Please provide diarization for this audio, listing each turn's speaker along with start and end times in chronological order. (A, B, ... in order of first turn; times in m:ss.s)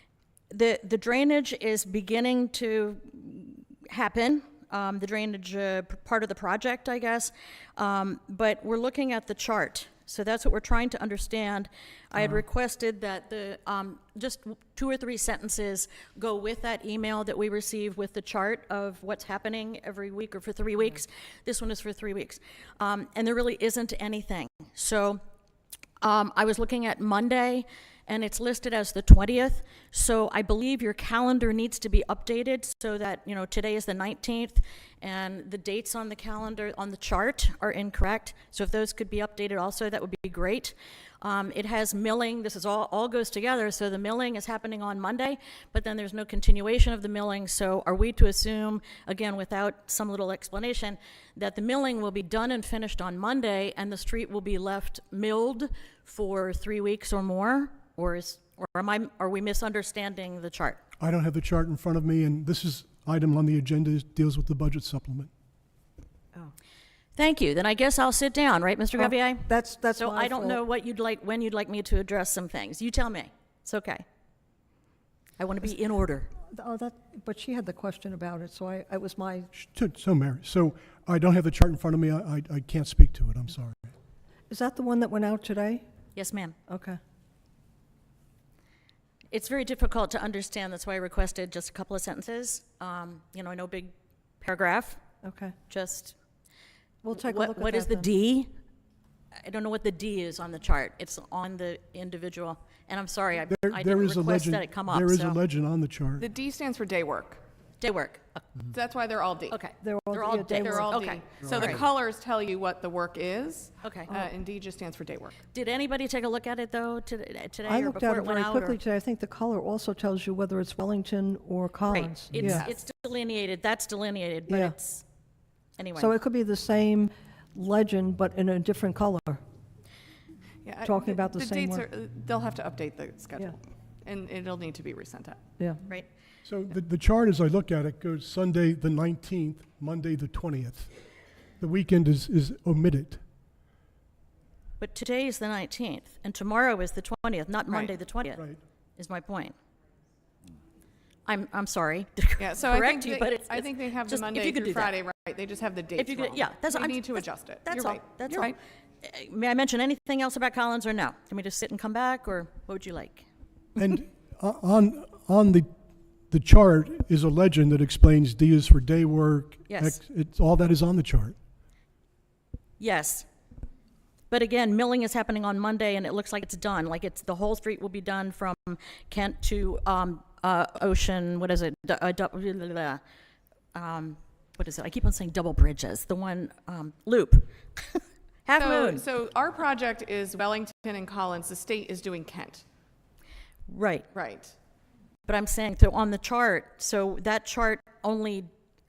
0:00.5-0:25.2 A
0:26.0-1:00.8 A
1:01.0-1:05.3 B
1:07.2-1:14.0 A
1:09.0-1:10.6 C
1:15.4-1:16.3 A
1:16.5-1:19.5 C
1:19.5-1:23.9 B
1:24.5-1:25.8 C
1:26.1-1:26.5 A
1:26.7-1:27.0 C
1:29.3-1:35.0 A
1:35.2-1:35.5 C
1:35.7-1:36.1 A
1:37.0-1:38.1 C
1:37.2-1:38.5 A
1:39.4-1:45.4 A
1:43.5-1:46.3 B
1:46.2-1:47.4 D
1:47.8-1:48.4 A
1:48.7-1:49.6 D
1:49.5-1:51.8 A
1:49.8-1:51.0 C
1:50.5-1:55.4 D
1:53.8-1:54.1 A
1:55.5-1:58.8 A
1:57.6-2:02.7 C
2:01.8-2:05.0 A
2:04.5-2:04.7 C
2:05.8-2:06.1 A
2:06.0-2:09.4 C
2:10.6-2:15.4 D
2:10.8-2:11.9 C
2:16.4-2:20.9 B
2:21.6-2:23.2 B
2:24.8-2:28.4 A
2:29.0-2:29.5 A
2:31.2-2:34.9 A
2:32.4-2:38.6 D
2:36.0-2:43.2 A
2:43.8-2:45.7 B
2:46.3-2:51.4 B
2:49.7-2:50.0 A
2:52.8-2:53.2 A
2:54.3-3:03.0 A
3:03.7-3:09.0 A
3:08.6-3:12.6 D
3:13.7-3:14.1 A
3:14.1-3:14.5 D
3:15.2-3:18.5 A